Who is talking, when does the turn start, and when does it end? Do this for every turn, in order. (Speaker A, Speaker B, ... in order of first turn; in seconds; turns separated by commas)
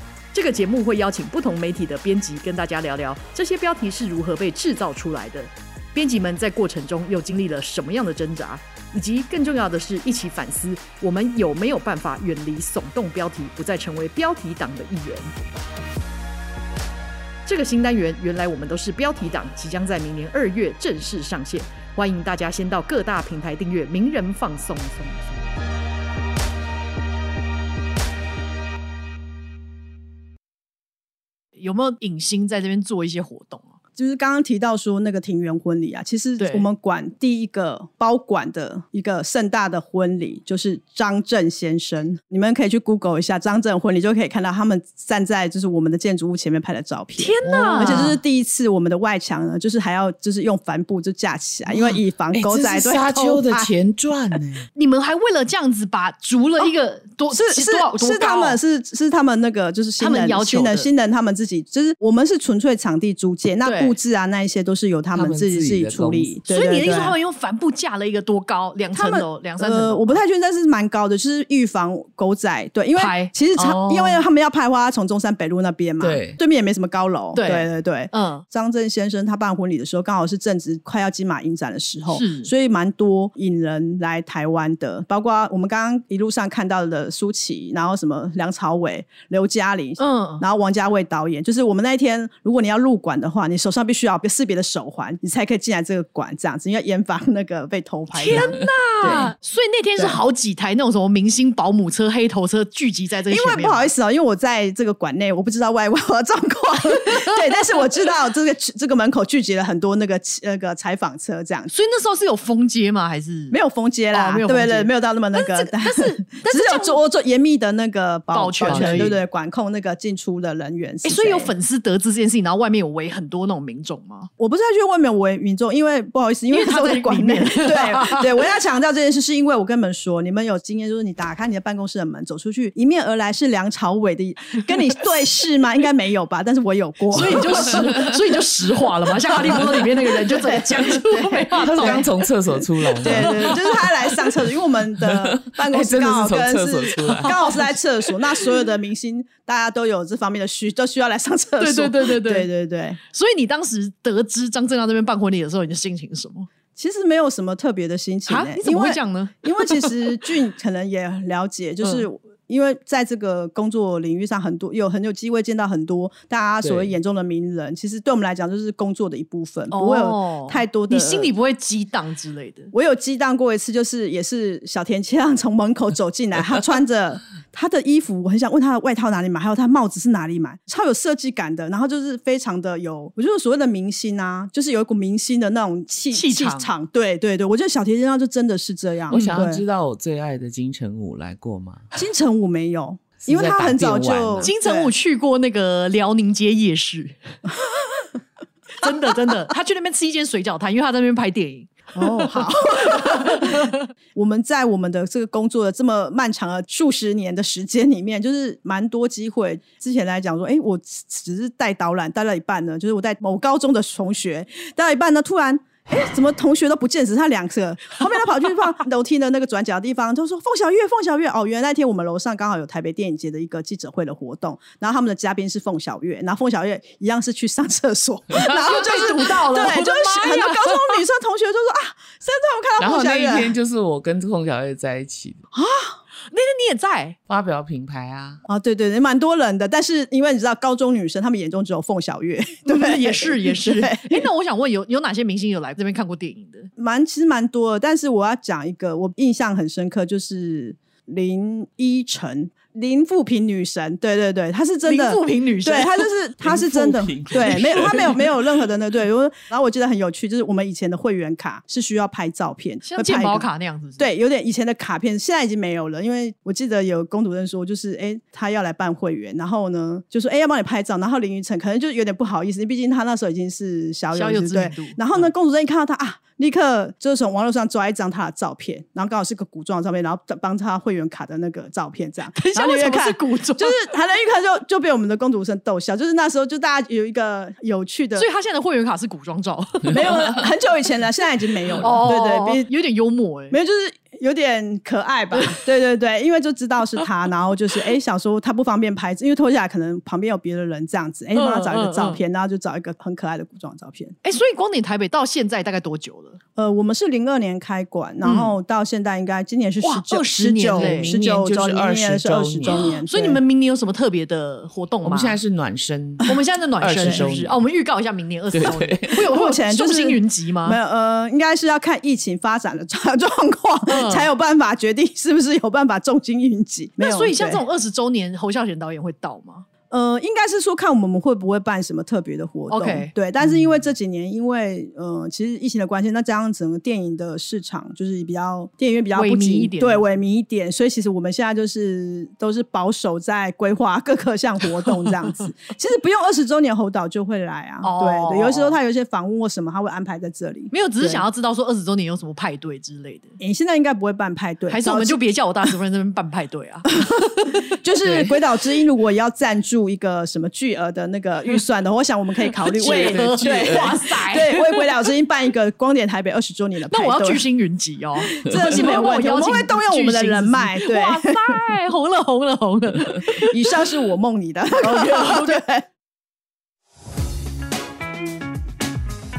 Speaker A: 0.3-15.3, Speaker A: 17.4-25.5, Speaker A: 31.6-33.8, Speaker B: 34.0-53.7, Speaker A: 36.4-36.7, Speaker A: 47.1-48.2, Speaker C: 47.4-48.2, Speaker C: 52.3-54.7, Speaker A: 54.7-58.6, Speaker B: 57.3-67.2, Speaker A: 60.0-60.9, Speaker A: 63.6-64.0, Speaker C: 65.1-66.3, Speaker A: 66.5-70.2, Speaker B: 68.9-99.3, Speaker A: 73.0-73.3, Speaker C: 73.6-74.2, Speaker C: 76.0-76.4, Speaker A: 77.3-78.4, Speaker A: 82.1-82.5, Speaker A: 90.0-90.4, Speaker A: 98.1-103.9, Speaker B: 103.3-111.7, Speaker A: 111.7-113.6, Speaker B: 113.5-121.5, Speaker A: 114.1-117.0, Speaker A: 118.3-119.2, Speaker C: 118.7-119.2, Speaker A: 121.0-124.3, Speaker B: 124.4-138.1, Speaker A: 126.5-128.3, Speaker A: 137.1-142.1, Speaker B: 140.2-142.1, Speaker C: 141.6-143.6, Speaker B: 143.0-153.0, Speaker A: 143.0-144.1, Speaker C: 145.1-147.4, Speaker A: 147.1-147.7, Speaker A: 151.6-152.5, Speaker A: 153.1-156.5, Speaker B: 156.7-171.3, Speaker A: 158.3-160.2, Speaker C: 166.6-166.9, Speaker A: 169.7-172.7, Speaker B: 172.7-189.6, Speaker A: 186.1-186.7, Speaker A: 189.1-189.4, Speaker C: 189.1-191.8, Speaker B: 191.9-194.9, Speaker C: 193.2-194.5, Speaker A: 194.4-197.2, Speaker A: 198.8-203.8, Speaker B: 201.9-233.5, Speaker A: 228.3-231.0, Speaker C: 232.8-235.4, Speaker B: 235.5-236.0, Speaker A: 236.3-237.2, Speaker C: 237.3-238.4, Speaker B: 238.5-244.3, Speaker A: 242.7-246.7, Speaker B: 246.8-263.5, Speaker A: 254.8-256.1, Speaker C: 256.4-258.2, Speaker A: 262.8-264.1, Speaker B: 264.0-288.3, Speaker A: 274.1-275.3, Speaker A: 282.3-283.9, Speaker A: 288.1-290.4, Speaker B: 289.9-292.7, Speaker A: 291.8-293.6, Speaker B: 293.5-304.2, Speaker A: 295.3-295.6, Speaker A: 301.3-302.2, Speaker A: 304.2-306.4, Speaker B: 306.6-313.4, Speaker A: 308.2-308.5, Speaker A: 309.8-311.1, Speaker C: 310.8-313.0, Speaker A: 312.7-315.4, Speaker C: 315.0-317.6, Speaker A: 316.2-320.8, Speaker C: 318.5-319.2, Speaker B: 319.2-327.6, Speaker A: 323.9-324.3, Speaker A: 327.0-329.6, Speaker B: 329.9-351.2, Speaker A: 332.7-333.5, Speaker A: 339.1-340.1, Speaker A: 347.8-348.8, Speaker A: 350.7-353.4, Speaker B: 353.4-355.2, Speaker A: 354.7-358.3, Speaker B: 356.9-367.4, Speaker A: 362.6-364.9, Speaker C: 362.9-363.9, Speaker A: 366.9-373.7, Speaker B: 368.2-371.6, Speaker B: 373.4-375.9, Speaker A: 374.8-375.6